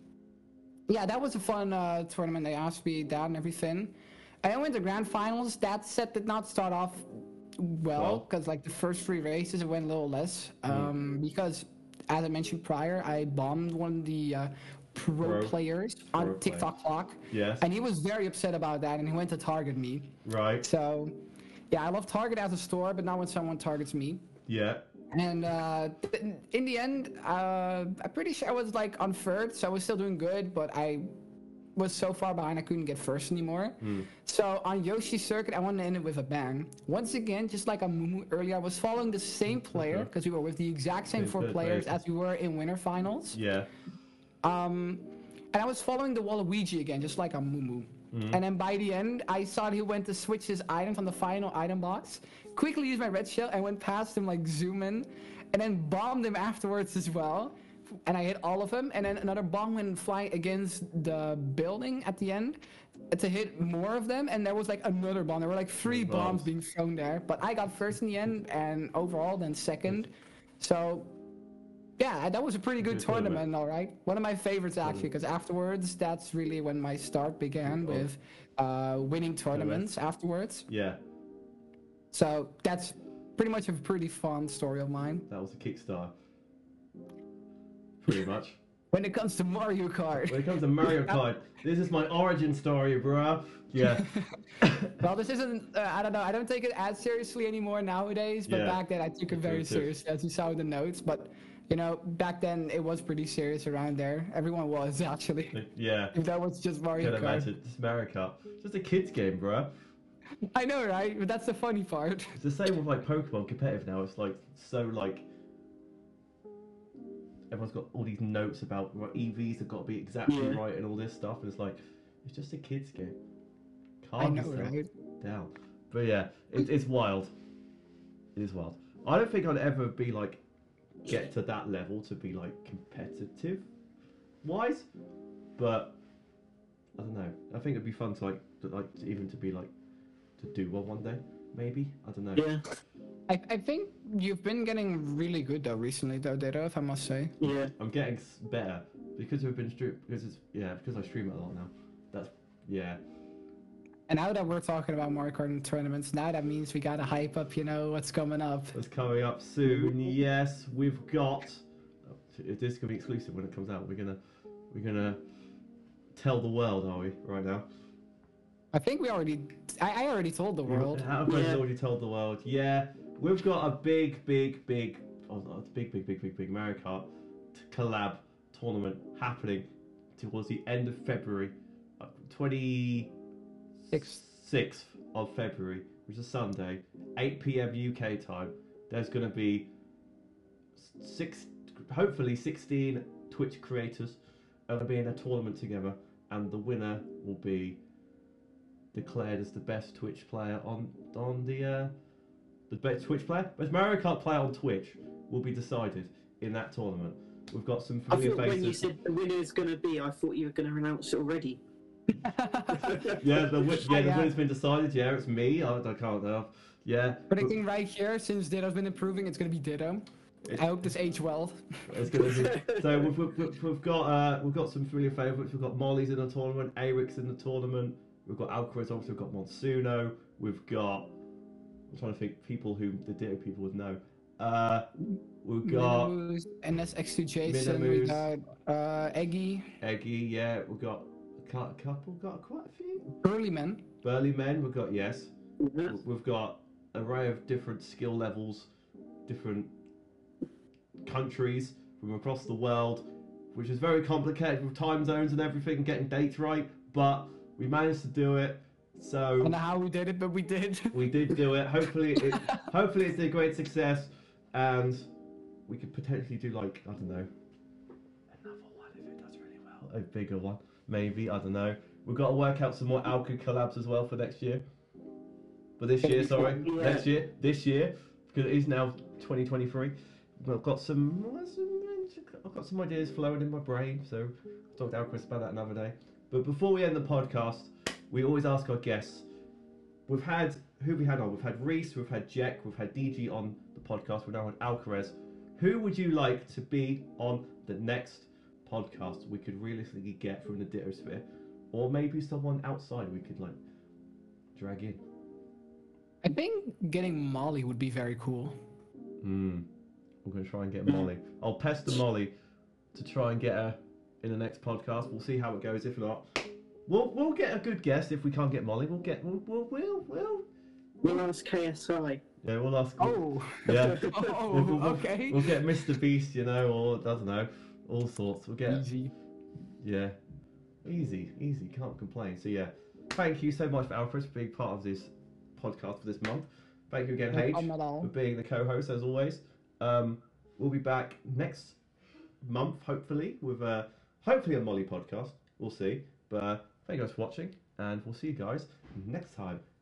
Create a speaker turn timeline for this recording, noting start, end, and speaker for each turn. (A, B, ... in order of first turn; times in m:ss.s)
0:00.9-0:21.1 A
0:07.9-0:08.3 B
0:10.6-0:10.9 B
0:15.2-0:15.6 B
0:16.1-0:16.7 B
0:17.3-0:17.6 B
0:20.2-0:20.7 B
0:21.7-0:24.2 A
0:24.5-0:24.8 B
0:25.1-0:31.1 A
0:31.8-0:43.4 A
0:33.8-0:34.1 B
0:39.7-0:40.1 B
0:41.1-0:41.9 B
0:43.3-0:43.7 B
0:44.4-1:11.1 A
0:48.1-0:48.4 B
1:05.8-1:06.5 B
1:12.0-1:20.7 A
1:12.8-1:13.4 B
1:14.8-1:15.1 B
1:17.6-1:18.1 B
1:19.5-1:19.9 B
1:20.7-1:21.0 B
1:22.1-1:25.2 A
1:25.3-1:26.1 B
1:28.0-1:28.6 B
1:28.9-1:31.2 A
1:30.2-1:34.1 B
1:34.6-1:34.9 B
1:35.0-1:45.6 A
1:38.5-1:39.9 B
1:45.5-1:46.2 B
1:46.1-1:47.5 A
1:47.0-1:49.7 B
1:50.5-1:52.4 A
1:52.4-1:55.2 B
1:57.5-2:03.2 B
2:00.3-2:00.6 C
2:04.0-2:07.3 B
2:04.2-2:04.9 A
2:08.4-2:10.4 B
2:11.1-2:13.7 B
2:14.4-2:14.9 B
2:15.6-2:16.0 B
2:17.0-2:19.7 B
2:20.4-2:22.5 B
2:22.3-2:22.6 C
2:23.3-2:27.3 A
2:27.4-2:27.7 C
2:27.8-2:33.0 B
2:34.1-2:38.8 A
2:38.7-2:41.6 B
2:42.3-2:44.2 B
2:44.7-2:45.2 B
2:46.1-2:47.7 B
2:48.7-2:51.1 A
2:50.7-3:03.1 B
2:51.2-2:51.6 C
3:03.8-3:09.7 B
3:03.9-3:04.2 A
3:10.8-3:17.8 B
3:18.9-3:21.9 B
3:22.7-3:28.9 B
3:28.1-3:31.6 C
3:32.2-3:33.1 A
3:32.8-3:33.2 C
3:33.0-3:37.5 B
3:33.8-3:34.4 A
3:37.3-3:42.2 A
3:40.4-3:40.7 B
3:41.9-3:51.1 B
3:42.2-3:43.1 C
3:51.9-3:54.9 B
3:55.4-3:56.1 B
3:55.6-3:59.7 A
3:57.4-3:58.3 B
3:59.8-4:03.1 B
4:03.2-4:03.8 A
4:04.0-4:05.3 B
4:05.6-4:06.0 C
4:05.8-4:08.7 B
4:09.3-4:09.7 B
4:11.0-4:19.6 B
4:19.4-4:21.5 A
4:20.9-4:25.1 B
4:22.2-4:22.6 A
4:25.7-4:27.3 B
4:28.3-4:34.6 B
4:35.8-4:49.2 B
4:36.0-4:36.7 A
4:36.4-4:37.1 C
4:50.1-5:03.6 B
5:04.5-5:05.0 B
5:06.2-5:08.6 A
5:09.2-5:09.7 B
5:10.2-5:12.3 B
5:12.9-5:20.5 B
5:21.0-5:22.2 C
5:22.4-5:28.8 B
5:23.0-5:25.6 A
5:23.7-5:24.4 C
5:28.7-5:29.1 A
5:29.8-5:30.2 B
5:30.8-5:41.8 B
5:37.3-5:38.1 A
5:42.4-5:49.6 B